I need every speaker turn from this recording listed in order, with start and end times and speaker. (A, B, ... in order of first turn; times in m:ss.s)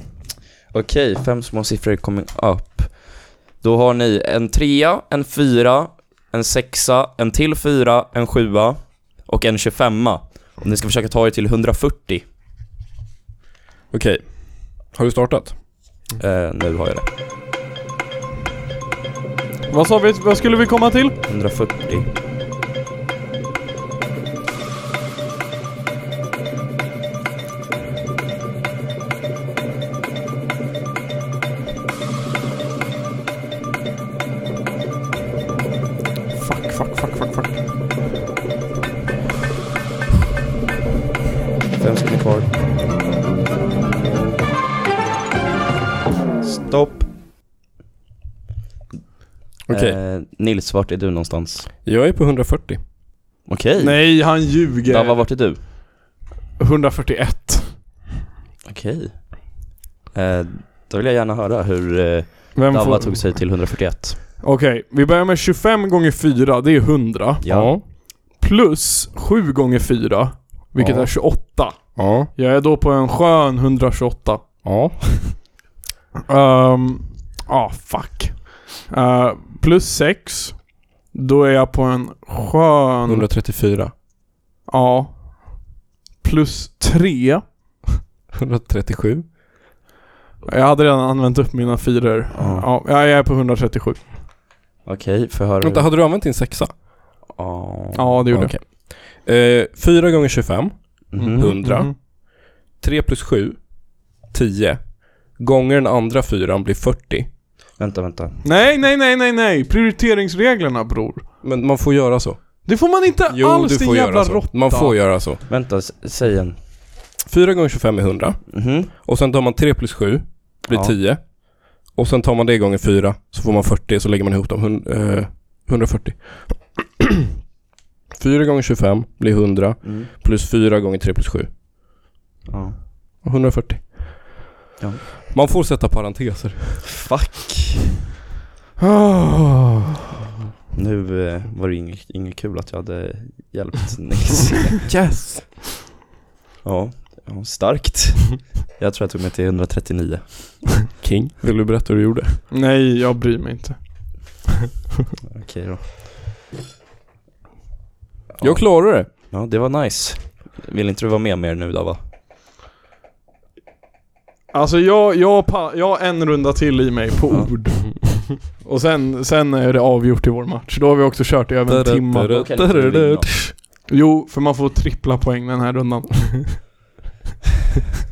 0:00.7-0:12.2 A
0:13.9-0:15.6 B
0:16.2-0:17.1 A
0:19.7-0:21.2 C
0:21.3-0:22.1 A
0:36.3-0:37.6 C
0:41.8-0:42.5 A
0:46.4-0:47.1 A
0:49.7-0:51.7 A
0:49.7-0:50.0 B
0:51.8-0:52.8 B
0:53.5-0:55.6 A
0:53.8-0:55.3 C
0:56.6-0:57.8 C
0:58.6-1:04.2 A
1:02.6-1:03.4 C
1:04.4-1:07.4 C
1:07.4-1:07.7 A
1:07.5-1:07.8 B
1:08.3-1:14.5 C
1:10.8-1:11.1 B
1:12.0-1:12.3 B
1:14.6-1:15.4 B
1:16.3-1:23.2 C
1:23.1-1:23.9 B
1:24.7-1:25.7 C
1:26.2-1:27.8 C
1:28.4-1:29.2 B
1:30.4-1:34.0 C
1:32.3-1:32.7 A
1:34.8-1:35.9 A
1:35.6-1:36.8 B
1:37.3-1:38.2 A
1:38.0-1:38.6 C
1:38.3-1:47.3 B
1:41.1-1:41.7 A
1:41.2-1:42.0 C
1:47.8-1:48.4 A
1:48.4-1:51.3 C
1:51.4-1:52.7 B
1:52.6-1:55.0 C
1:53.3-1:55.4 B
1:55.4-1:56.6 A
1:57.2-2:07.1 B
1:58.5-1:58.9 A
2:00.7-2:01.0 A
2:08.2-2:11.6 B
2:09.8-2:10.1 A
2:12.5-2:12.8 A
2:13.2-2:14.4 B
2:14.8-2:15.1 A
2:15.3-2:16.9 B
2:16.9-2:18.0 A
2:18.8-2:19.8 B
2:20.7-2:24.8 A
2:24.9-2:25.6 B
2:26.6-2:30.9 A
2:30.9-2:32.4 B
2:32.5-2:34.3 C
2:35.3-2:35.9 A
2:38.4-2:42.0 A
2:38.4-2:39.1 B
2:44.5-2:52.4 C
2:51.7-2:53.5 B
2:52.3-2:53.4 A
2:53.9-2:56.6 C